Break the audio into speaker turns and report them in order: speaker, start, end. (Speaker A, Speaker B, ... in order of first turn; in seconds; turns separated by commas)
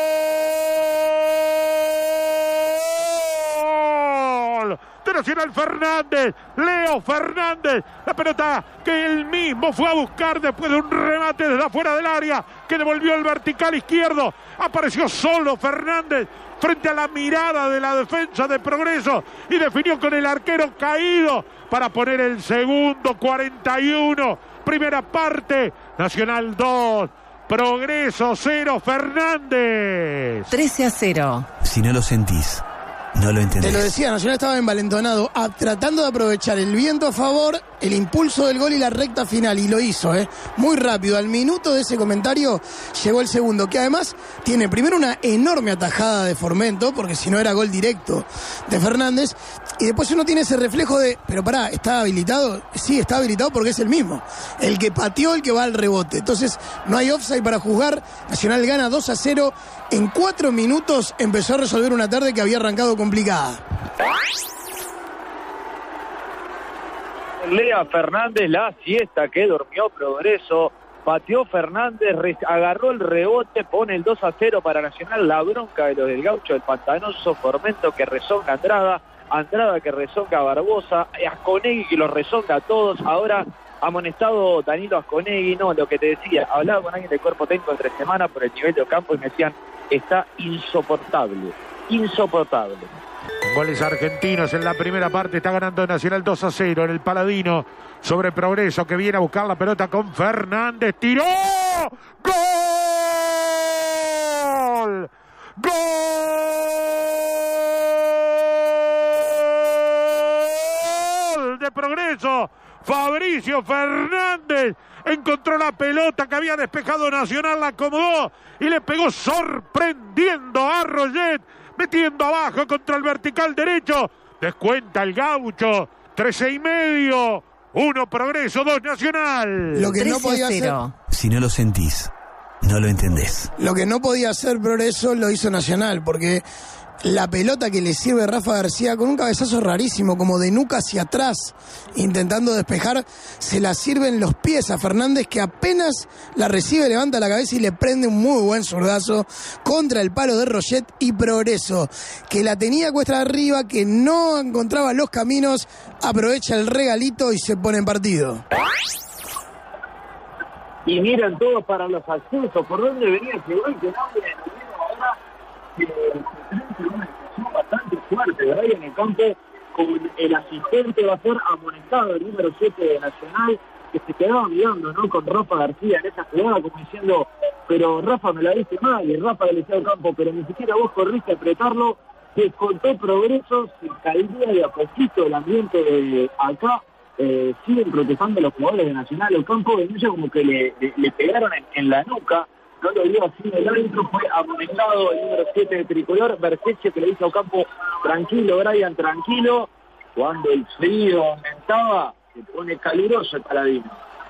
Speaker A: 0.3-30.5, Speaker B: 30.5-31.5, Speaker C: 31.6-32.6, Speaker C: 33.1-33.9, Speaker D: 33.6-63.6, Speaker E: 67.4-92.9, Speaker A: 93.4-129.9, Speaker D: 129.7-130.8, Speaker B: 129.9-130.9, Speaker C: 131.1-132.1, Speaker C: 132.6-133.5, Speaker D: 133.6-136.4, Speaker D: 137.0-158.4, Speaker E: 160.8-165.2, Speaker E: 165.8-204.0